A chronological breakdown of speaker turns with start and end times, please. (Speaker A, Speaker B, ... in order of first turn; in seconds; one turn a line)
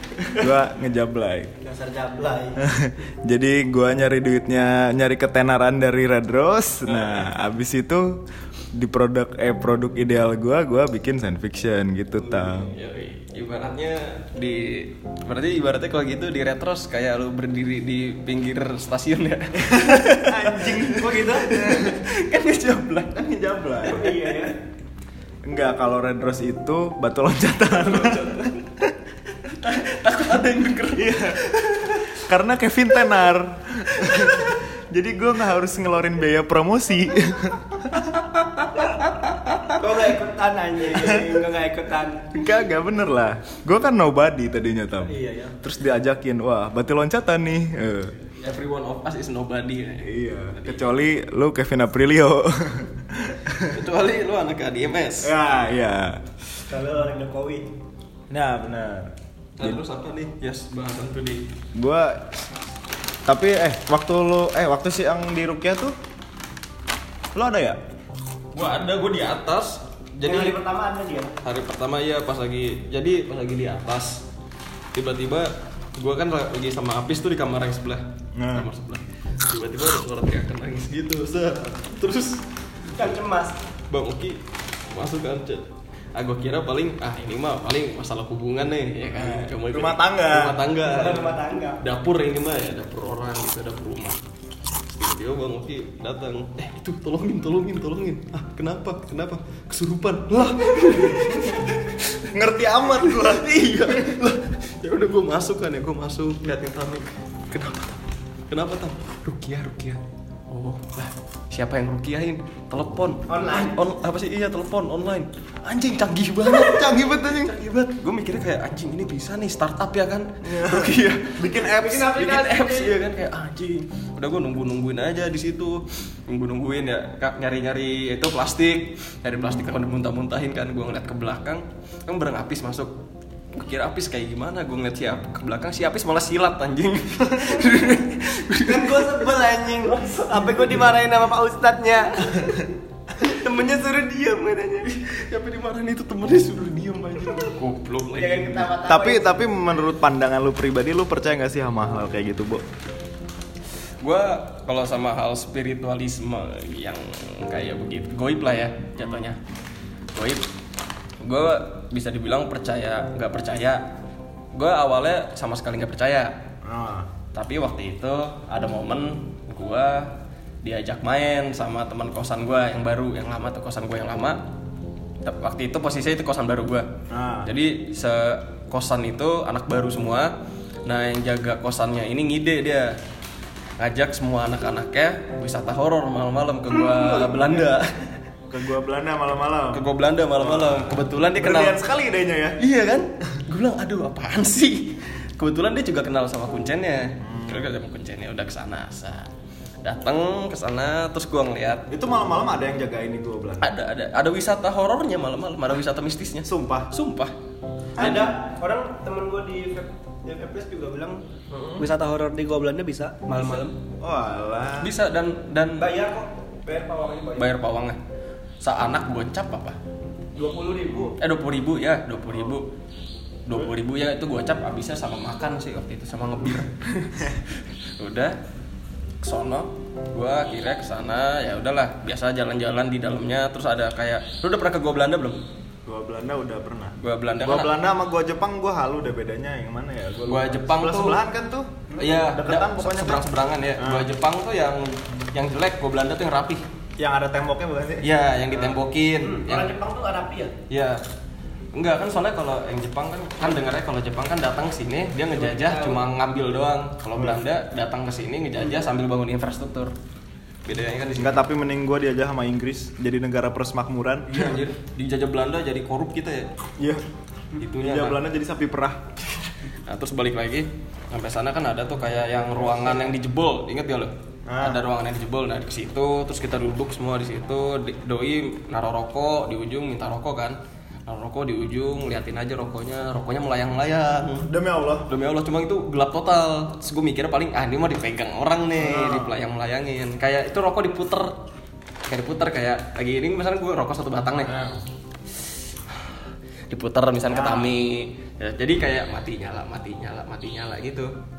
Speaker A: 0.3-1.5
Speaker B: 1.6-2.6
Speaker A: 2.6-12.7
Speaker C: 6.9-7.2
Speaker C: 12.3-20.9
Speaker A: 19.7-24.2
Speaker B: 21.0-21.6
Speaker C: 21.5-23.0
Speaker B: 23.9-24.5
Speaker A: 25.4-28.5
Speaker C: 27.8-28.6
Speaker C: 29.5-32.1
Speaker A: 30.9-31.4
Speaker A: 32.1-38.2
Speaker C: 34.0-34.5
Speaker C: 38.0-39.8
Speaker B: 39.8-42.2
Speaker A: 40.9-41.3
Speaker A: 42.3-48.2
Speaker B: 45.0-45.5
Speaker C: 48.3-51.0
Speaker A: 50.0-53.8
Speaker C: 53.6-55.4
Speaker A: 55.2-56.2
Speaker B: 56.7-57.7
Speaker A: 58.3-59.8
Speaker C: 59.6-61.4
Speaker A: 61.7-62.4
Speaker A: 63.2-65.9
Speaker A: 67.3-67.8
Speaker C: 68.5-70.6
Speaker B: 70.2-71.3
Speaker C: 71.4-74.2
Speaker C: 74.9-82.4
Speaker A: 78.3-78.7
Speaker B: 82.9-83.6
Speaker C: 83.9-94.2
Speaker A: 89.1-90.6
Speaker B: 90.8-91.8
Speaker C: 94.7-102.3
Speaker A: 102.3-103.5
Speaker C: 103.0-107.9
Speaker C: 108.5-132.9
Speaker B: 113.3-113.8
Speaker A: 116.4-117.6
Speaker A: 120.4-122.9
Speaker B: 121.8-122.5
Speaker C: 133.5-139.1
Speaker B: 138.6-144.9
Speaker C: 139.9-140.8
Speaker C: 144.8-148.7
Speaker B: 148.2-149.5
Speaker A: 148.8-152.6
Speaker C: 154.0-159.4
Speaker C: 160.1-160.4
Speaker C: 161.2-163.8
Speaker C: 164.5-166.3
Speaker A: 166.6-167.1
Speaker C: 167.3-170.1
Speaker C: 170.6-174.4
Speaker C: 175.2-176.9
Speaker A: 177.1-177.5
Speaker C: 177.4-180.3
Speaker C: 180.8-182.9
Speaker C: 183.8-188.0
Speaker A: 188.5-192.6
Speaker C: 189.7-191.8
Speaker C: 192.6-199.3
Speaker A: 197.2-197.7
Speaker C: 199.8-201.9
Speaker A: 201.9-203.7
Speaker C: 203.6-207.3
Speaker A: 206.4-206.9
Speaker A: 208.0-208.3
Speaker B: 208.0-211.2
Speaker C: 211.5-211.8
Speaker B: 211.8-213.7
Speaker C: 213.3-213.6
Speaker A: 214.0-214.9
Speaker C: 214.8-215.8
Speaker B: 215.8-217.5
Speaker C: 217.3-218.0
Speaker C: 218.6-219.8
Speaker B: 220.4-221.1
Speaker A: 220.4-221.1
Speaker C: 221.2-222.7
Speaker C: 223.4-227.0
Speaker C: 227.8-228.3
Speaker C: 229.2-235.4
Speaker A: 235.9-243.2
Speaker C: 237.0-237.8
Speaker C: 240.2-241.2
Speaker C: 242.0-246.6
Speaker A: 243.8-244.1
Speaker A: 247.0-248.8
Speaker C: 248.0-249.8
Speaker B: 249.2-250.5
Speaker C: 250.7-251.0
Speaker C: 251.7-259.9
Speaker B: 255.3-256.0
Speaker C: 260.6-261.4
Speaker A: 261.1-264.6
Speaker C: 264.3-266.5
Speaker C: 267.6-268.2
Speaker A: 267.8-269.1
Speaker C: 269.9-284.5
Speaker A: 274.5-274.8
Speaker A: 284.4-285.1
Speaker C: 285.1-291.4
Speaker A: 288.8-289.4
Speaker C: 292.1-294.5
Speaker A: 294.4-294.8
Speaker C: 295.9-296.1
Speaker C: 296.7-301.1
Speaker A: 297.3-297.7